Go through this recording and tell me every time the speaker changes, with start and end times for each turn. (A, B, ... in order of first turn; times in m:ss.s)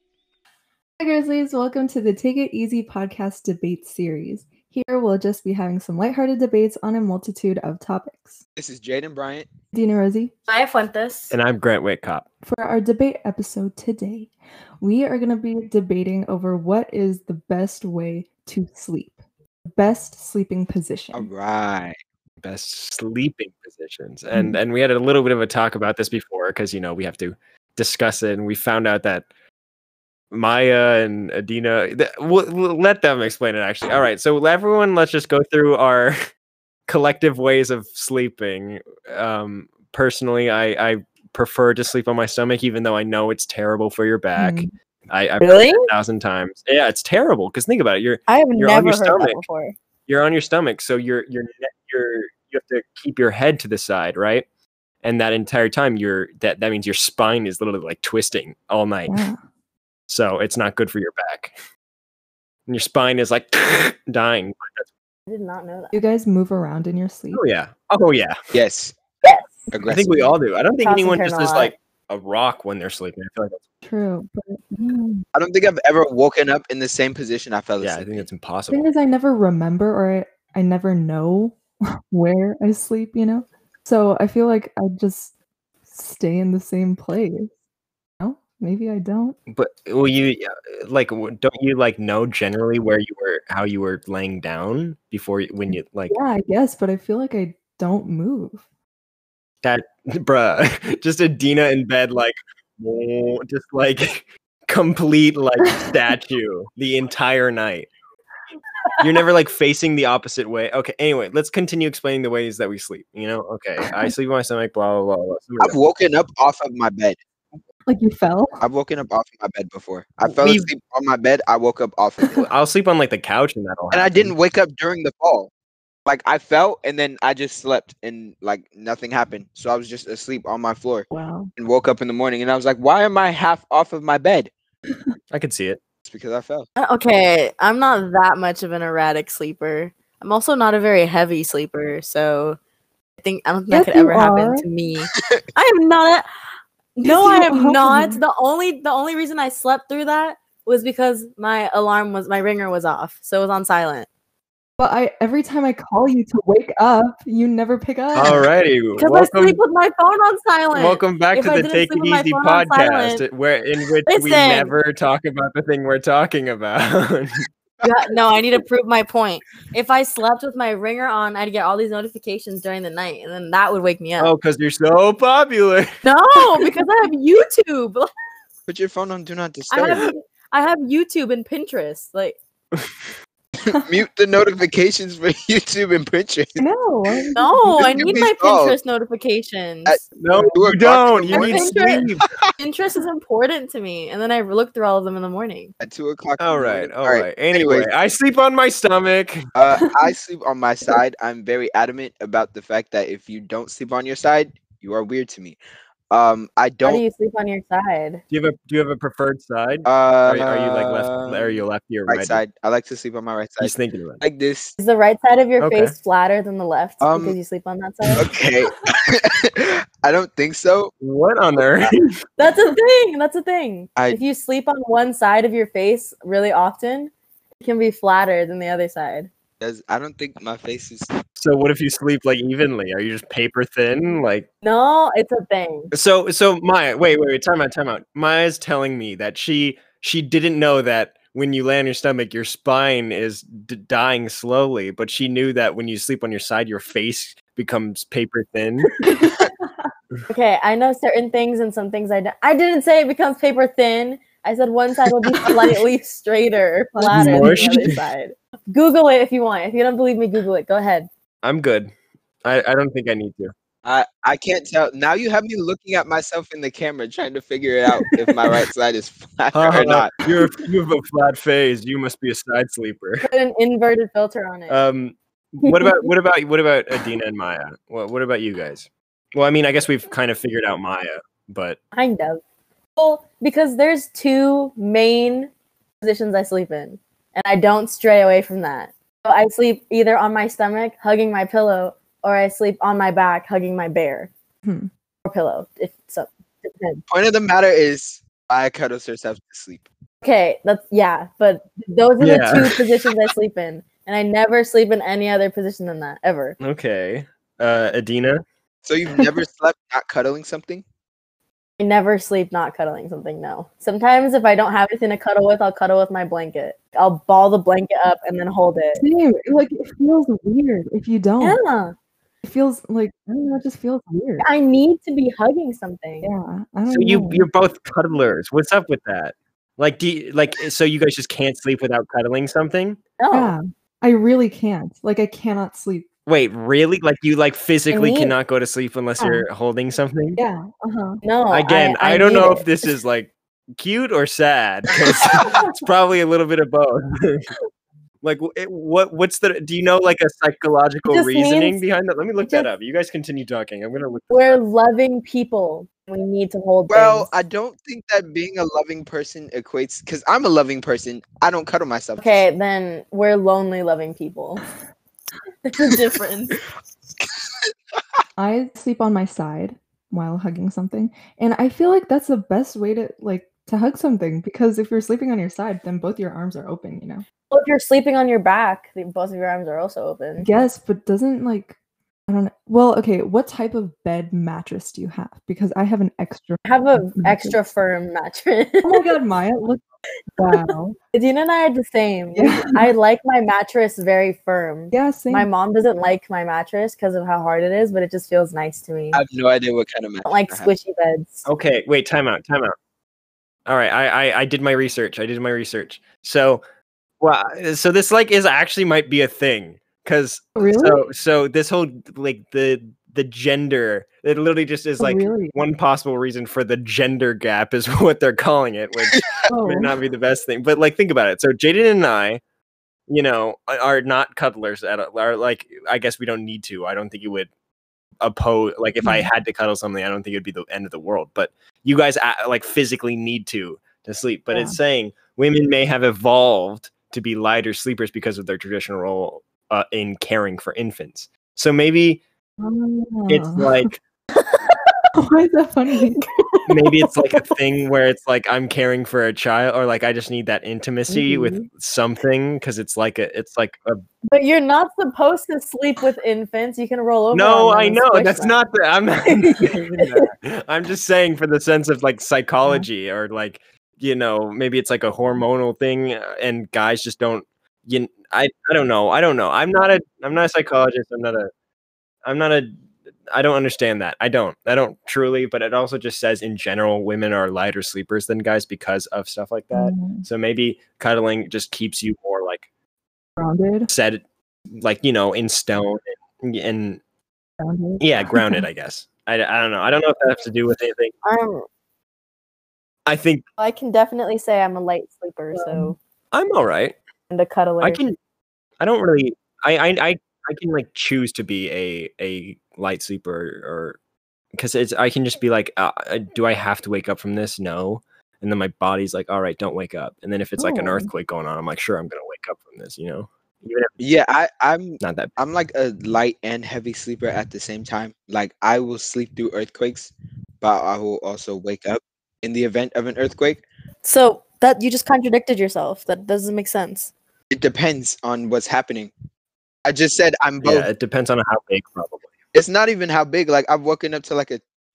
0:01.0-0:08.4 A
0:08.6-0:09.5 B
0:09.7-0:10.3 A
0:10.5-0:11.3 C
0:11.3-0:12.2 D
0:12.4-0:21.3 A
0:21.1-0:22.0 B
0:22.4-0:29.2 D
0:24.3-0:24.6 A
0:30.3-0:36.2 D
0:36.9-0:49.4 D
0:44.4-0:44.7 A
0:45.4-0:45.9 C
0:48.3-0:49.7 C
0:50.1-0:54.4 D
0:55.0-0:59.3 D
0:59.1-0:59.4 A
1:00.1-1:01.5 D
1:02.7-1:04.9 D
1:05.3-1:05.9 C
1:05.9-1:07.4 A
1:07.3-1:08.4 D
1:08.5-1:09.0 B
1:09.2-1:09.7 C
1:09.7-1:10.3 B
1:09.8-1:13.6 D
1:10.8-1:11.7 C
1:13.8-1:15.2 A
1:15.3-1:18.2 B
1:17.8-1:18.9 D
1:18.7-1:25.3 A
1:25.9-1:27.5 A
1:28.2-1:29.4 A
1:29.5-1:36.2 D
1:36.1-1:38.6 A
1:39.6-1:47.9 D
1:49.0-1:55.8 D
1:53.9-1:54.1 A
1:55.6-1:57.2 B
1:57.9-1:58.6 A
1:58.6-2:02.5 B
2:00.2-2:00.7 D
2:02.4-2:04.3 D
2:03.9-2:05.5 B
2:06.0-2:14.5 B
2:11.1-2:11.5 A
2:15.3-2:15.8 D
2:16.0-2:16.6 B
2:16.8-2:22.6 C
2:23.2-2:26.2 C
2:23.7-2:24.6 A
2:27.0-2:34.1 C
2:27.0-2:28.2 A
2:34.8-2:38.5 A
2:38.1-2:39.6 D
2:39.0-2:43.2 C
2:40.7-2:47.4 D
2:44.1-2:44.7 C
2:47.8-2:54.3 C
2:54.2-2:55.9 D
2:56.0-2:58.1 C
2:58.7-3:00.0 B
2:59.7-3:02.4 C
3:02.7-3:03.1 D
3:03.6-3:06.6 B
3:06.6-3:08.2 A
3:07.3-3:10.0 C
3:07.7-3:08.8 B
3:09.8-3:12.3 B
3:10.2-3:12.2 D
3:11.3-3:12.1 C
3:12.6-3:15.7 C
3:15.8-3:17.9 B
3:16.4-3:19.5 D
3:19.5-3:25.6 B
3:26.1-3:27.0 B
3:26.8-3:28.2 C
3:28.3-3:32.4 D
3:29.8-3:34.8 B
3:33.6-3:34.2 D
3:34.8-3:38.3 C
3:35.6-3:35.9 D
3:37.0-3:37.4 B
3:38.2-3:40.9 B
3:41.0-3:42.1 D
3:42.4-3:49.3 C
3:49.6-3:51.1 B
3:51.4-3:54.4 D
3:54.6-3:55.9 C
3:55.9-4:09.2 D
4:09.0-4:09.5 A
4:10.3-4:21.1 C
4:17.0-4:17.9 A
4:17.1-4:18.0 D
4:21.4-4:21.9 D
4:22.4-4:23.5 D
4:23.8-4:30.1 B
4:28.0-4:28.6 C
4:29.5-4:33.3 D
4:33.2-4:34.8 C
4:34.7-4:41.8 D
4:35.6-4:36.1 C
4:41.9-4:42.4 C
4:43.0-4:54.3 C
4:54.6-4:54.9 A
4:55.2-4:57.0 C
4:57.1-4:59.9 B
5:00.2-5:06.6 C
5:02.2-5:02.8 D
5:06.6-5:08.4 D
5:08.8-5:10.8 B
5:11.8-5:19.0 C
5:19.0-5:21.6 A
5:21.4-5:21.9 C
5:22.4-5:24.4 A
5:24.4-5:26.3 C
5:26.2-5:27.5 A
5:26.9-5:33.0 D
5:33.2-5:33.6 C
5:33.3-5:36.1 A
5:36.3-5:40.4 D
5:37.9-5:38.3 C
5:40.4-5:41.2 A
5:41.2-5:42.6 C
5:41.5-5:47.5 D
5:48.2-5:54.5 D
5:51.1-5:51.8 C
5:52.4-5:52.7 C
5:54.3-5:57.3 C
5:56.9-6:02.4 B
6:02.2-6:04.6 C
6:05.6-6:06.6 C
6:08.4-6:17.2 A
6:17.5-6:20.5 C
6:20.4-6:21.8 A
6:22.3-6:27.6 A
6:26.6-6:29.0 C
6:28.8-6:29.8 A
6:30.4-6:31.0 A
6:30.5-6:39.2 C
6:32.3-6:32.9 A
6:34.9-6:35.5 A
6:39.1-6:40.7 B
6:40.2-6:41.4 C
6:41.4-6:42.8 D
6:43.6-6:46.6 D
6:47.2-7:02.4 D
6:50.6-6:51.0 A
6:55.0-6:55.5 A
6:59.5-7:00.0 A
7:03.1-7:07.5 D
7:08.2-7:22.2 D
7:09.0-7:09.3 A
7:14.5-7:14.8 A
7:22.6-7:23.9 A
7:23.3-7:24.0 D
7:24.4-7:24.9 C
7:25.1-7:26.2 A
7:26.2-7:26.7 C
7:26.7-7:34.0 D
7:31.1-7:31.6 C
7:34.3-7:38.5 C
7:37.3-7:51.5 D
7:39.3-7:40.2 C
7:52.2-7:52.7 D
7:53.3-8:02.6 D
7:59.7-8:00.2 A
8:03.4-8:03.9 A
8:03.9-8:04.2 D
8:04.7-8:07.0 D
8:07.6-8:08.6 A
8:08.0-8:11.1 D
8:11.2-8:11.6 C
8:13.0-8:13.4 D
8:13.6-8:16.0 C
8:15.5-8:15.9 A
8:16.3-8:17.0 D
8:17.3-8:18.0 C
8:17.8-8:18.2 D
8:18.8-8:24.0 D
8:24.5-8:34.0 D
8:30.6-8:31.1 A
8:34.0-8:43.6 B
8:35.0-8:35.3 D
8:44.0-8:47.1 C
8:47.5-8:49.1 B
8:49.8-8:50.9 B
8:50.6-8:52.3 D
8:52.5-8:54.6 B